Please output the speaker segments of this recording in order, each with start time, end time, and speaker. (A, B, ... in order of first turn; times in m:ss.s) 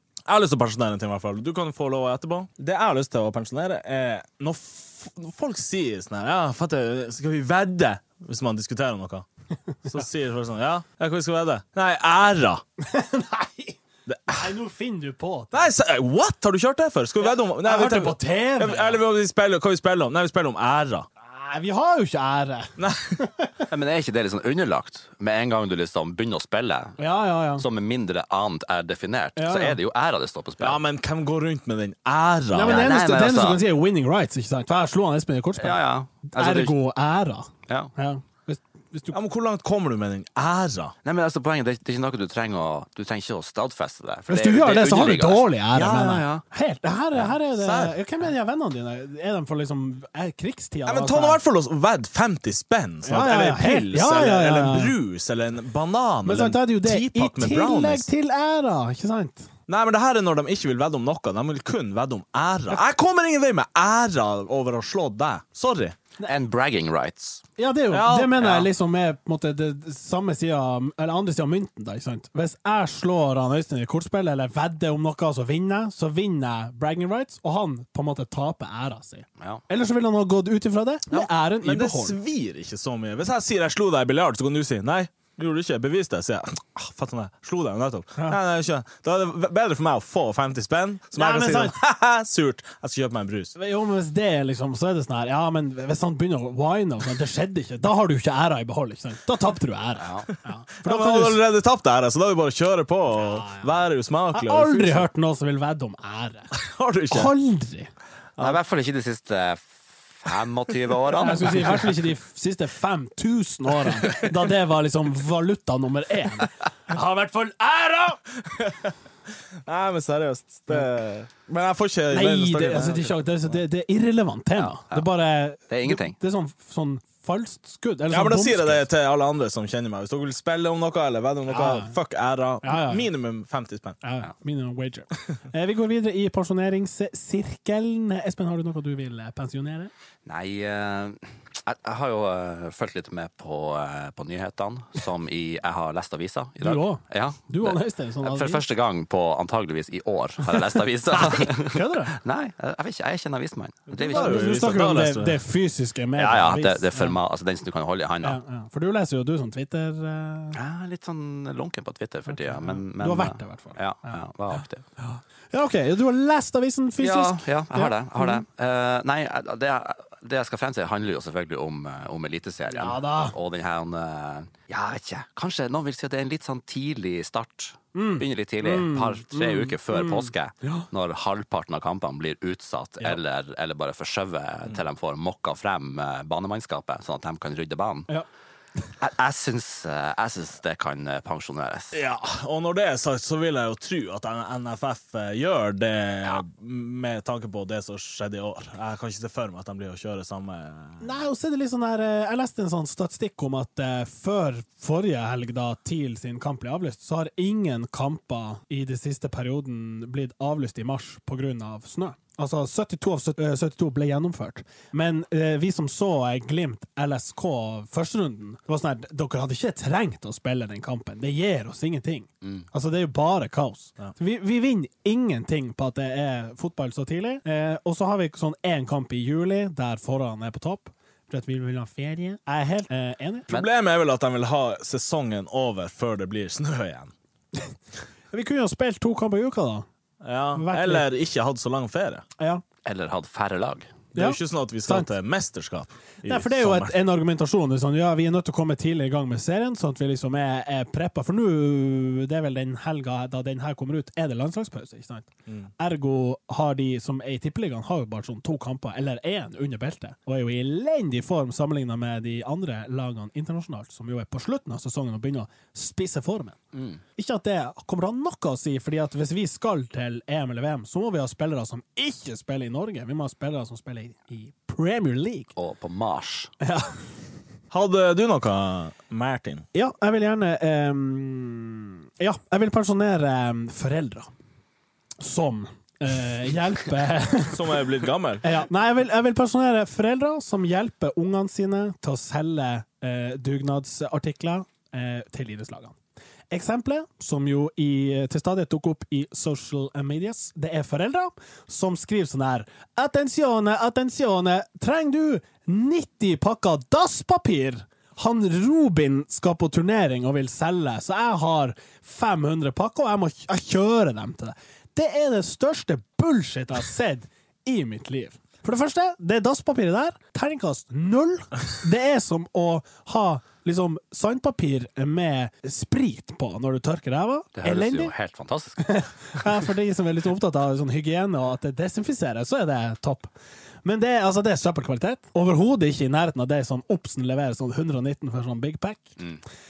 0:00.2-0:09.2 A
0:09.8-0:12.6 A
0:12.8-0:15.7 B
0:14.1-0:14.5 A
0:15.5-0:21.1 A
0:17.2-0:19.0 B
0:21.2-0:23.6 B
0:22.8-0:23.2 A
0:23.7-0:27.0 C
0:27.0-0:27.6 B
0:27.6-0:30.8 C
0:29.4-0:29.8 B
0:30.6-0:32.9 A
0:32.5-0:39.2 B
0:32.6-0:33.6 C
0:35.6-0:36.7 C
0:39.1-0:40.9 A
0:41.0-0:46.4 C
0:44.3-0:51.4 B
0:47.5-0:48.0 A
0:50.8-0:58.1 A
0:53.0-0:54.9 B
0:56.2-0:59.5 B
0:59.7-1:06.0 A
1:06.2-1:07.4 C
1:07.6-1:22.2 B
1:07.9-1:08.6 A
1:08.4-1:08.6 C
1:21.1-1:33.5 A
1:31.1-1:31.8 B
1:33.6-1:41.4 B
1:40.0-1:40.3 C
1:40.8-1:45.1 A
1:43.2-1:43.8 B
1:44.3-1:46.5 B
1:46.5-1:47.3 A
1:47.1-1:47.9 B
1:48.4-1:51.9 C
1:51.2-1:58.2 B
1:58.4-1:58.9 A
1:59.6-2:03.3 A
2:02.1-2:08.8 B
2:04.6-2:05.1 C
2:05.7-2:06.2 C
2:08.1-2:14.0 A
2:11.5-2:12.0 B
2:12.6-2:13.1 B
2:14.0-2:19.9 B
2:20.2-2:34.6 C
2:26.6-2:28.6 B
2:30.5-2:32.1 B
2:33.9-2:35.4 A
2:34.0-2:37.2 B
2:36.2-2:38.4 C
2:38.2-2:40.6 B
2:40.5-2:44.8 C
2:42.3-2:48.4 B
2:47.0-3:08.1 C
2:52.7-2:53.3 B
2:57.9-3:00.8 B
3:09.0-3:12.0 C
3:11.9-3:21.1 A
3:21.0-3:53.5 B
3:53.5-3:57.1 A
3:58.3-3:59.8 B
4:00.2-4:02.2 A
4:00.5-4:01.0 B
4:02.4-4:02.6 B
4:02.8-4:04.0 C
4:04.1-4:05.1 B
4:04.1-4:07.0 A
4:06.2-4:26.6 B
4:26.7-4:27.0 C
4:27.2-4:35.5 B
4:35.6-4:36.5 C
4:36.6-4:37.0 B
4:37.7-4:39.6 A
4:39.7-4:44.3 B
4:45.2-4:47.8 B
4:47.5-4:48.4 A
4:48.4-4:56.0 B
4:56.5-5:28.1 B
5:27.5-5:28.8 C
5:28.8-5:33.3 B
5:33.8-5:39.2 B